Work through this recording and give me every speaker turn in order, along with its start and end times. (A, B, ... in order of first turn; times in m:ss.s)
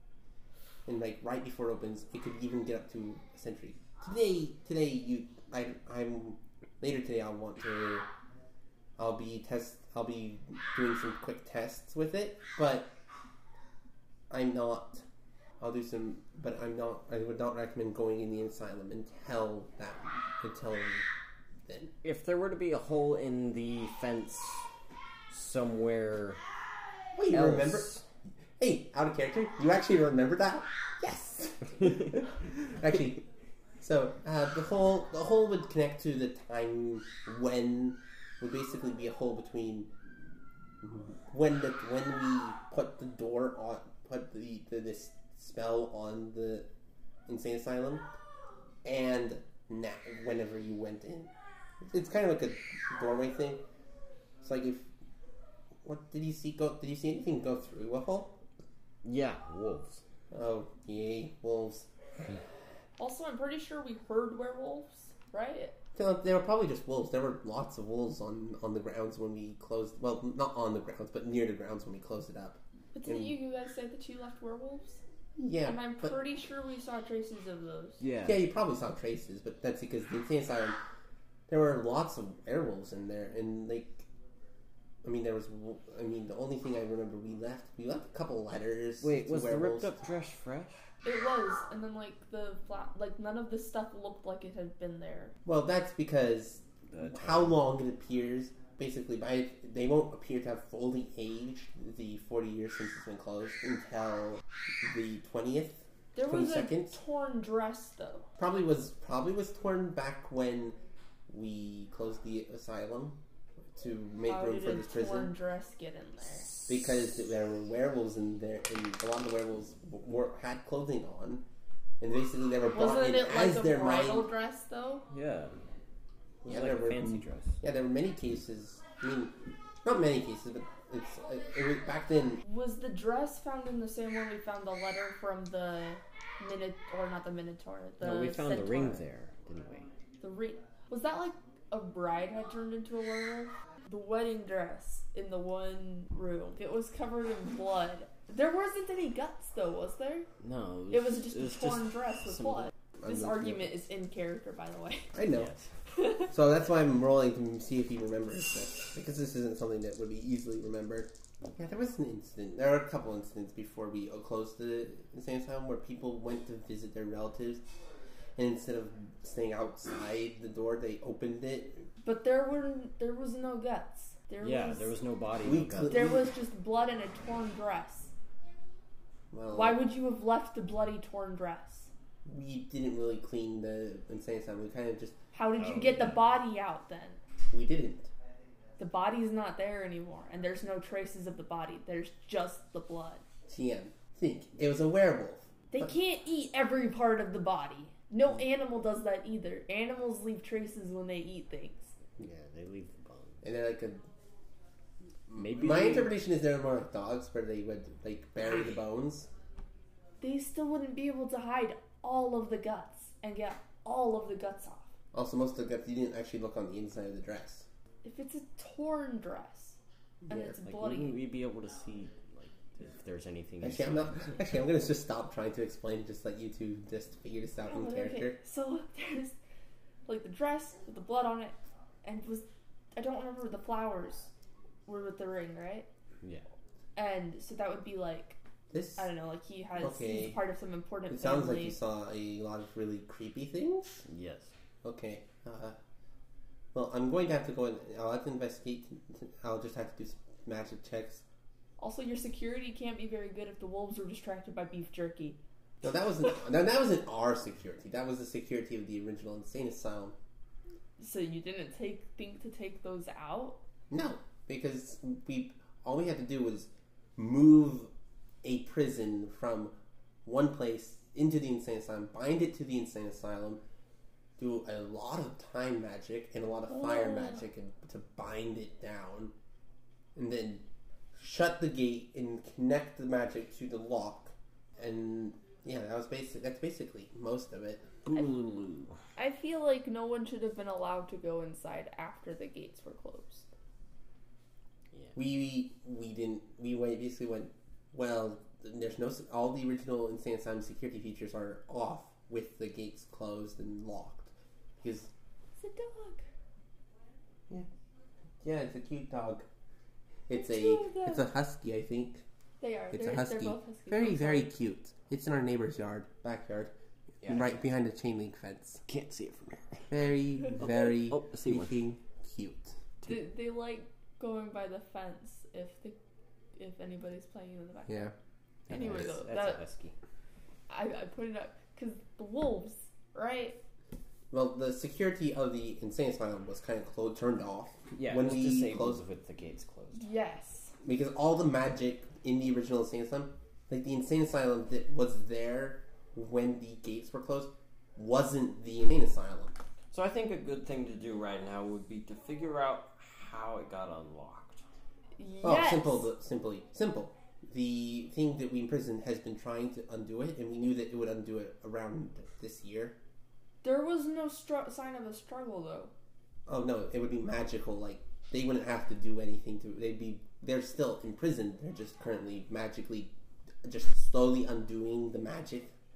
0:00.8-0:08.0 A
0:09.0-0:12.9 A
0:14.3-0:15.0 A
0:15.6-0:21.0 A
0:21.7-0:21.9 A
0:22.0-0:24.7 B
0:25.3-0:26.4 B
0:27.2-0:28.0 A
0:27.3-0:28.0 B
0:28.6-0:33.2 A
0:33.8-0:39.9 A
0:40.8-0:46.7 A
0:47.3-0:48.0 A
0:48.8-0:51.3 A
0:51.8-0:53.6 A
0:54.4-0:54.9 A
0:55.8-0:58.4 A
0:59.0-1:00.0 B
1:00.3-1:01.9 A
1:03.0-1:05.8 C
1:05.9-1:13.3 A
1:12.9-1:15.0 C
1:15.4-1:16.1 A
1:15.6-1:18.0 C
1:18.0-1:18.4 B
1:18.2-1:20.8 A
1:21.5-1:24.1 A
1:25.0-1:29.9 A
1:29.0-1:30.8 B
1:31.0-1:35.3 C
1:35.4-1:47.0 A
1:36.9-1:37.5 B
1:46.1-1:48.3 C
1:48.4-1:50.8 A
1:51.3-1:53.2 A
1:53.8-1:55.3 A
1:54.3-1:56.5 C
1:56.6-2:01.4 A
2:02.0-2:04.3 A
2:02.7-2:05.0 C
2:05.1-2:05.5 B
2:06.4-2:12.4 A
2:06.4-2:07.6 B
2:12.4-2:19.0 C
2:18.0-2:19.9 B
2:20.2-2:30.3 C
2:30.4-2:32.7 B
2:30.9-2:35.1 C
2:33.0-2:33.8 A
2:35.1-2:35.5 A
2:35.3-2:35.7 B
2:36.3-2:47.6 A
2:48.4-2:51.9 A
2:52.0-2:54.9 C
2:54.4-2:56.0 B
2:55.4-2:56.3 A
2:55.9-2:58.1 C
2:59.3-2:59.8 A
2:59.5-3:01.9 C
3:02.2-3:05.2 A
3:05.3-3:07.2 C
3:05.6-3:06.2 B
3:07.5-3:08.1 A
3:08.8-3:13.2 C
3:13.5-3:15.9 A
3:15.7-3:21.9 C
3:22.2-3:23.4 B
3:23.4-3:24.0 A
3:25.3-3:29.3 A
3:25.4-3:26.1 B
3:30.2-3:34.9 C
3:35.1-3:37.7 A
3:38.0-3:39.8 C
3:40.2-3:40.6 A
3:40.3-3:41.2 C
3:40.6-3:44.3 B
3:43.6-3:48.4 A
3:47.7-3:49.3 C
3:50.0-3:54.3 C
3:54.8-3:55.9 C
3:56.9-3:58.4 C
3:58.7-3:59.1 A
3:59.0-4:01.8 C
3:59.8-4:00.4 A
4:01.1-4:04.0 A
4:04.0-4:04.5 B
4:04.8-4:05.8 A
4:06.7-4:11.2 A
4:11.8-4:15.4 C
4:15.8-4:20.1 A
4:21.0-4:23.6 C
4:23.9-4:27.9 A
4:28.4-4:33.6 A
4:34.4-4:39.3 A
4:36.7-4:37.4 C
4:40.2-4:40.6 A
4:41.1-4:47.9 A
4:48.0-4:49.0 B
4:49.2-4:53.4 C
4:55.1-5:05.1 A
5:05.6-5:06.2 C
5:08.4-5:09.4 A
5:10.3-5:12.2 A
5:10.3-5:11.2 C
5:12.6-5:14.5 C
5:12.9-5:16.7 A
5:17.2-5:17.5 B
5:17.2-5:18.8 A
5:18.9-5:19.9 B
5:19.9-5:22.8 A
5:20.6-5:21.8 B
5:23.0-5:26.0 C
5:26.6-5:28.0 C
5:27.9-5:28.1 A
5:28.7-5:29.6 C
5:28.7-5:29.9 B
5:30.7-5:33.6 C
5:34.3-5:39.0 A
5:37.9-5:40.0 B
5:39.9-5:40.7 C
5:40.8-5:49.6 A
5:49.9-5:54.6 B
5:55.2-5:56.0 C
5:55.4-6:03.0 A
6:03.6-6:05.9 C
6:06.5-6:13.1 A
6:13.6-6:15.7 A